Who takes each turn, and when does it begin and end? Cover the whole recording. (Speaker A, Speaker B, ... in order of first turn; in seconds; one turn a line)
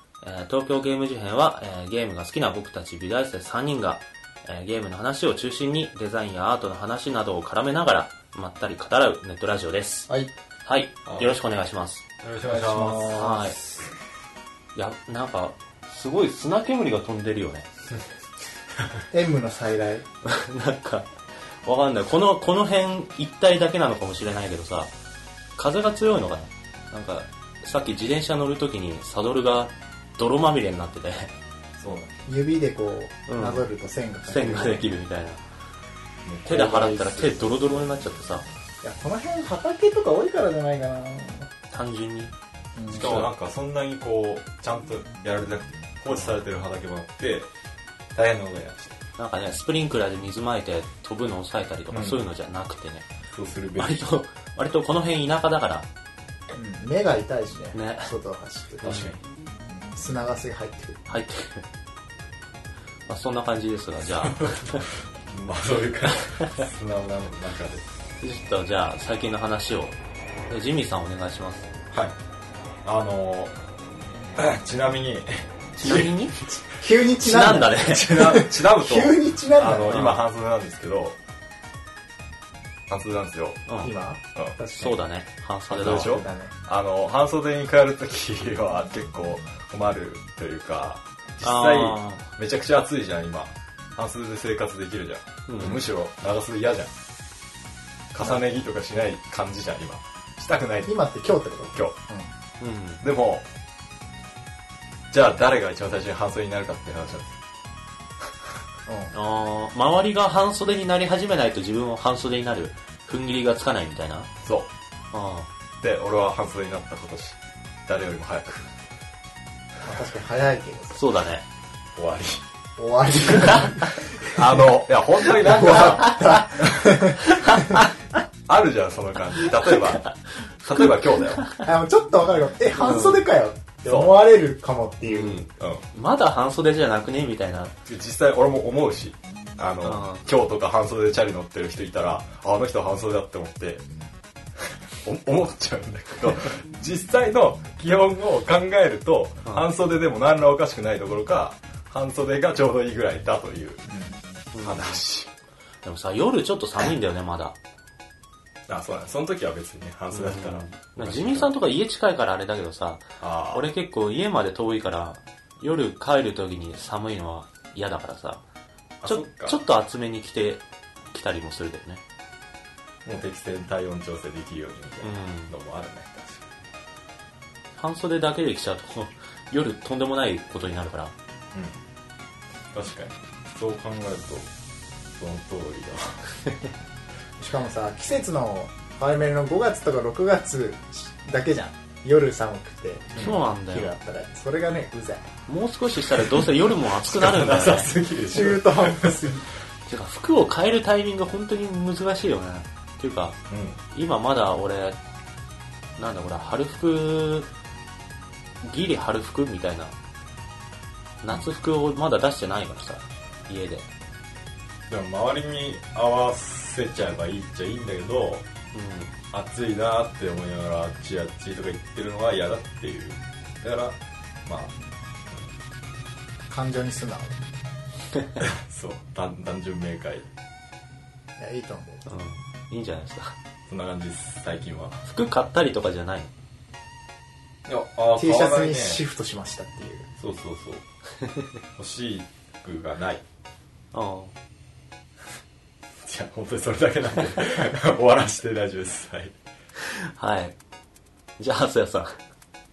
Speaker A: 0.2-10.1
Speaker A: 10.6-12.0
Speaker B: 11.1-11.3
Speaker B: 12.2-13.2
Speaker C: 12.5-13.8
Speaker A: 13.1-13.6
Speaker A: 14.7-17.6
Speaker C: 19.1-20.0
Speaker A: 20.2-21.1
Speaker A: 21.6-24.9
Speaker A: 25.6-31.3
Speaker B: 31.8-32.1
Speaker C: 32.2-35.0
Speaker A: 33.3-33.6
Speaker A: 34.3-35.4
Speaker B: 36.2-37.5
Speaker A: 36.5-38.4
Speaker C: 38.8-41.5
Speaker A: 41.7-42.3
Speaker C: 42.7-43.2
Speaker A: 42.9-43.3
Speaker B: 42.9-47.5
Speaker B: 48.1-49.0
Speaker A: 49.2-53.0
Speaker B: 51.9-52.2
Speaker B: 53.3-54.0
Speaker A: 53.8-55.9
Speaker C: 56.5-59.1
Speaker A: 57.7-58.1
Speaker B: 58.8-59.2
Speaker A: 58.9-59.1
Speaker C: 59.9-61.0
Speaker A: 61.1-61.6
Speaker A: 63.1-64.8
Speaker B: 64.2-67.8
Speaker A: 68.2-70.0
Speaker A: 70.5-71.7
Speaker B: 72.8-73.5
Speaker B: 74.3-76.1
Speaker A: 75.8-76.3
Speaker C: 76.6-80.1
Speaker A: 77.2-78.1
Speaker B: 77.7-81.2
Speaker A: 79.9-80.2
Speaker B: 82.9-83.6
Speaker C: 83.8-85.0
Speaker A: 84.8-86.2
Speaker B: 85.7-96.9
Speaker C: 85.9-86.5
Speaker A: 91.4-92.2
Speaker A: 95.5-95.8
Speaker B: 98.1-100.9
Speaker C: 100.8-102.3
Speaker A: 102.6-103.0
Speaker B: 103.0-103.5
Speaker B: 105.1-107.4
Speaker C: 108.9-109.1
Speaker A: 109.1-114.3
Speaker B: 114.4-114.7
Speaker A: 115.1-115.5
Speaker B: 115.8-118.7
Speaker C: 119.8-121.0
Speaker A: 120.9-121.4
Speaker B: 122.0-122.4
Speaker C: 122.8-124.6
Speaker A: 123.3-123.8
Speaker B: 124.2-127.2
Speaker C: 125.4-127.8
Speaker A: 125.4-126.4
Speaker A: 127.2-127.9
Speaker B: 128.5-130.1
Speaker A: 129.4-131.6
Speaker B: 130.6-131.5
Speaker C: 131.6-135.4
Speaker A: 132.8-133.2
Speaker B: 133.9-134.2
Speaker A: 135.1-137.7
Speaker B: 135.6-135.8
Speaker B: 137.8-143.8
Speaker A: 139.8-140.2
Speaker B: 145.0-153.8
Speaker C: 153.9-154.2
Speaker A: 154.5-155.0
Speaker B: 154.6-155.3
Speaker A: 155.8-157.6
Speaker B: 158.7-161.5
Speaker A: 160.1-168.4
Speaker B: 163.2-163.7
Speaker B: 169.0-169.6
Speaker A: 169.0-172.0
Speaker B: 173.0-176.5
Speaker A: 175.0-175.5
Speaker A: 177.8-181.1
Speaker B: 181.5-181.8
Speaker B: 182.7-184.5
Speaker B: 185.2-186.4
Speaker C: 187.4-195.3
Speaker A: 193.2-193.9
Speaker A: 195.5-197.9
Speaker B: 196.2-196.5
Speaker B: 197.0-199.4
Speaker C: 198.3-199.5
Speaker A: 199.8-203.4
Speaker B: 203.5-203.8
Speaker A: 203.9-205.0
Speaker A: 206.0-207.5
Speaker A: 208.6-209.9
Speaker A: 211.2-213.9
Speaker B: 214.9-218.4
Speaker A: 218.7-219.1
Speaker B: 219.3-224.7
Speaker C: 226.5-227.4
Speaker B: 228.4-230.3
Speaker C: 231.4-232.0
Speaker A: 232.1-233.3
Speaker B: 233.7-235.0
Speaker A: 235.0-236.3
Speaker B: 237.7-239.0
Speaker C: 238.2-240.1
Speaker B: 240.2-240.8
Speaker B: 241.8-243.2
Speaker A: 243.9-244.3
Speaker B: 246.0-249.3
Speaker A: 249.8-250.6
Speaker A: 251.4-252.2